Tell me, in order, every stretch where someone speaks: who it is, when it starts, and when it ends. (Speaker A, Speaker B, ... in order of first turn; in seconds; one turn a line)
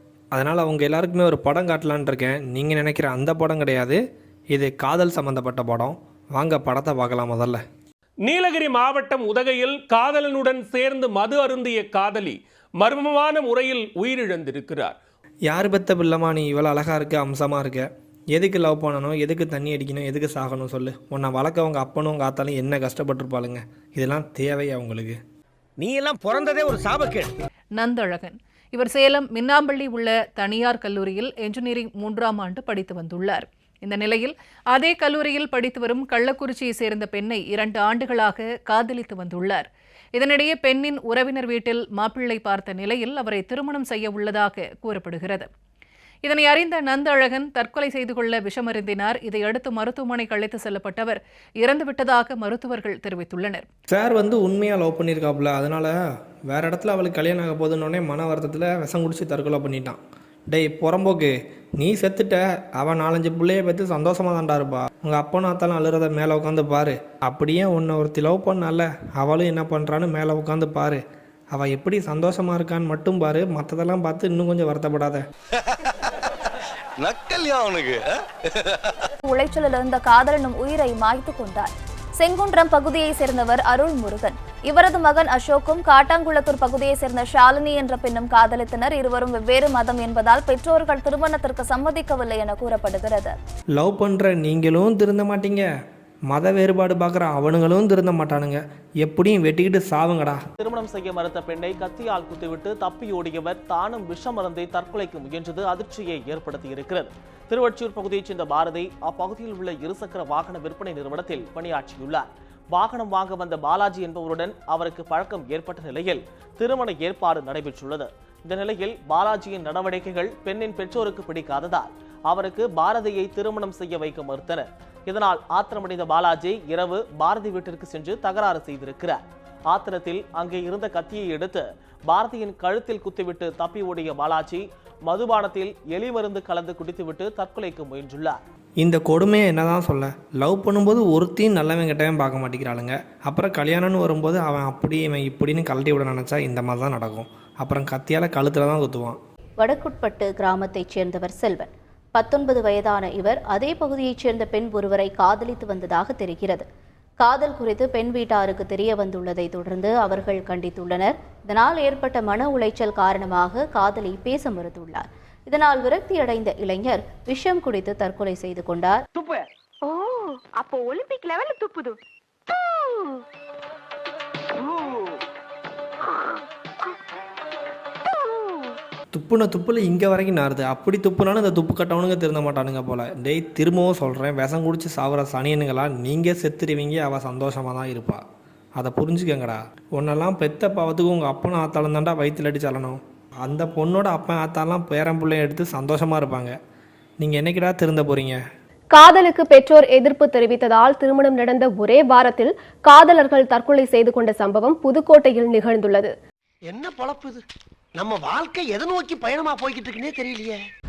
Speaker A: 0.3-4.0
Speaker A: 4.5-7.6
Speaker B: 8.2-15.0
Speaker A: 15.5-25.2
Speaker C: 27.8-45.5
Speaker C: 46.2-53.6
Speaker A: 53.9-55.9
Speaker A: 56.5-60.0
Speaker A: 60.5-71.0
Speaker A: 71.5-75.2
Speaker D: 75.6-76.1
Speaker D: 77.0-79.1
Speaker E: 79.2-93.4
Speaker A: 93.8-95.7
Speaker A: 96.3-100.4
Speaker F: 100.6-138.4
Speaker A: 138.8-149.2
Speaker G: 149.6-156.6
Speaker G: 157.2-169.0
Speaker H: 169.2-170.1
Speaker H: 170.6-171.9
Speaker A: 179.2-188.2
Speaker A: 188.8-196.5
Speaker A: 197.2-198.4
Speaker I: 198.9-206.1
Speaker J: 206.7-207.4
Speaker J: 208.0-210.6